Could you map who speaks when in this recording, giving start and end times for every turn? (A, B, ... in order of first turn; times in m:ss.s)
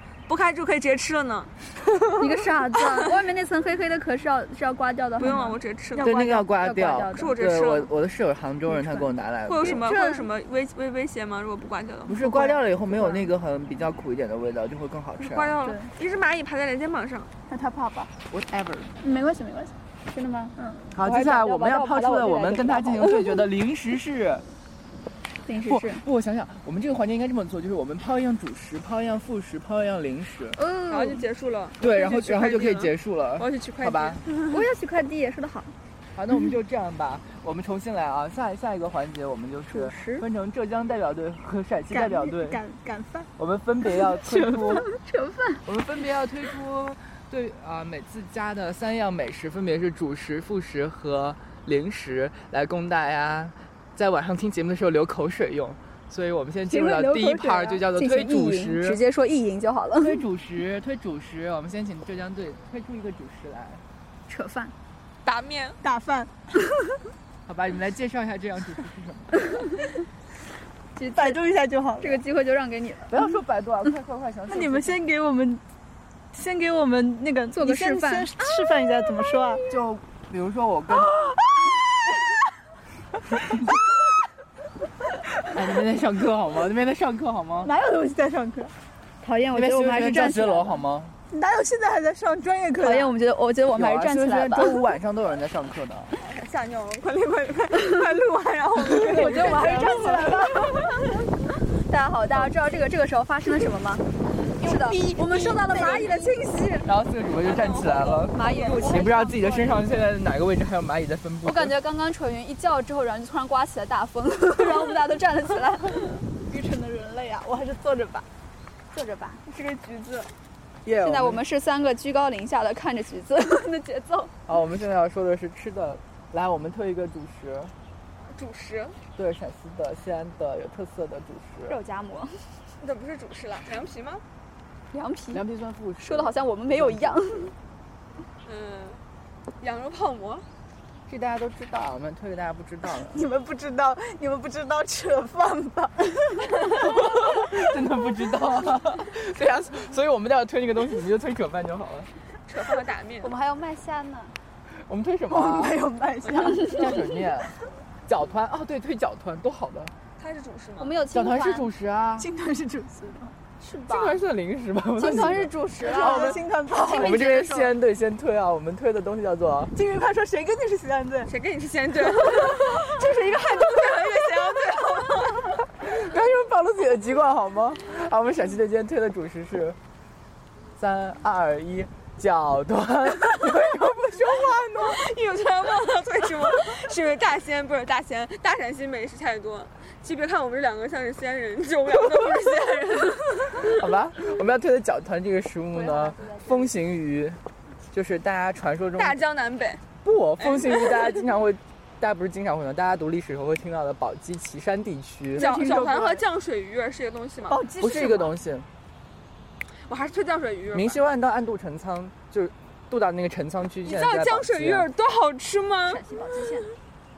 0:00.3-0:01.5 A
0:02.2-0:07.3 B
0:05.2-0:06.2 A
0:06.0-0:09.8 C
0:07.1-0:07.9 A
0:08.7-0:09.1 B
0:09.5-0:12.2 A
0:09.6-0:10.2 B
0:12.1-0:15.6 C
0:12.2-0:13.3 B
0:15.2-0:17.3 A
0:15.6-0:15.9 B
0:17.5-0:18.1 D
0:18.3-0:18.9 C
0:19.0-0:23.4 B
0:20.9-0:24.4 C
0:25.4-0:26.0 B
0:25.6-0:30.6 C
0:30.6-0:31.2 B
0:30.9-0:34.4 A
0:31.8-0:34.2 C
0:34.5-0:35.7 B
0:36.1-0:42.6 C
0:39.7-0:40.2 B
0:41.9-0:43.3 D
0:43.4-0:44.8 C
0:44.0-0:44.7 D
0:44.7-0:45.6 B
0:45.6-0:59.0 C
0:56.7-1:00.2 B
1:00.0-1:03.8 C
1:04.3-1:04.7 B
1:05.2-1:05.8 A
1:05.8-1:06.5 D
1:07.4-1:09.6 C
1:11.0-1:11.4 B
1:11.1-1:12.2 D
1:12.0-1:13.2 B
1:13.1-1:15.0 C
1:14.5-1:15.6 D
1:16.3-1:19.6 D
1:17.5-1:18.3 B
1:19.7-1:21.1 C
1:20.9-1:22.1 D
1:25.5-1:27.7 C
1:27.6-1:28.7 D
1:29.2-1:30.8 B
1:29.5-1:31.1 C
1:31.3-1:33.1 D
1:32.8-1:34.8 B
1:33.7-1:36.1 C
1:36.1-1:39.7 A
1:38.9-1:40.3 C
1:38.9-1:40.7 D
1:39.0-1:40.9 B
1:41.9-1:44.0 B
1:44.5-1:46.6 D
1:44.6-1:46.9 B
1:46.8-1:51.7 C
1:47.4-1:49.1 A
1:48.3-1:50.1 B
1:51.4-1:56.1 B
1:56.5-1:58.2 D
1:58.9-1:59.4 B
1:59.4-2:00.3 A
2:00.8-2:01.4 C
2:01.0-2:04.3 B
2:04.5-2:07.7 C
2:08.3-2:09.0 A
2:09.2-2:11.8 C
2:11.7-2:12.3 B
2:12.8-2:14.2 A
2:14.9-2:15.4 B
2:15.3-2:17.4 C
2:16.0-2:17.5 B
2:18.4-2:19.0 A
2:19.6-2:20.4 A
2:21.1-2:23.2 C
2:22.9-2:27.3 D
2:26.8-2:32.1 C
2:32.5-2:33.3 A
2:33.2-2:34.3 B
2:34.9-2:35.8 C
2:35.3-2:37.0 D
2:36.6-2:37.5 C
2:38.1-2:39.9 C
2:40.2-2:40.9 A
2:40.8-2:41.7 B
2:41.1-2:42.3 C
2:42.2-2:43.3 D
2:43.6-2:44.2 B
2:43.9-2:49.7 C
2:45.0-2:47.7 B
2:45.8-2:47.2 D
2:49.7-2:51.3 D
2:51.2-2:55.5 A
2:52.1-2:55.4 D
2:55.8-2:59.8 C
3:00.8-3:05.0 C
3:04.8-3:13.8 A
3:13.6-3:17.4 C
3:15.7-3:16.7 B
3:17.9-3:19.2 C
3:19.0-3:19.8 A
3:20.0-3:25.5 C
3:20.4-3:21.1 A
3:25.4-3:27.6 A
3:25.4-3:26.1 B
3:25.4-3:26.2 D
3:27.5-3:28.3 D
3:27.8-3:28.7 C
3:29.9-3:31.0 A
3:30.7-3:34.9 C
3:33.8-3:36.0 A
3:35.9-3:36.7 B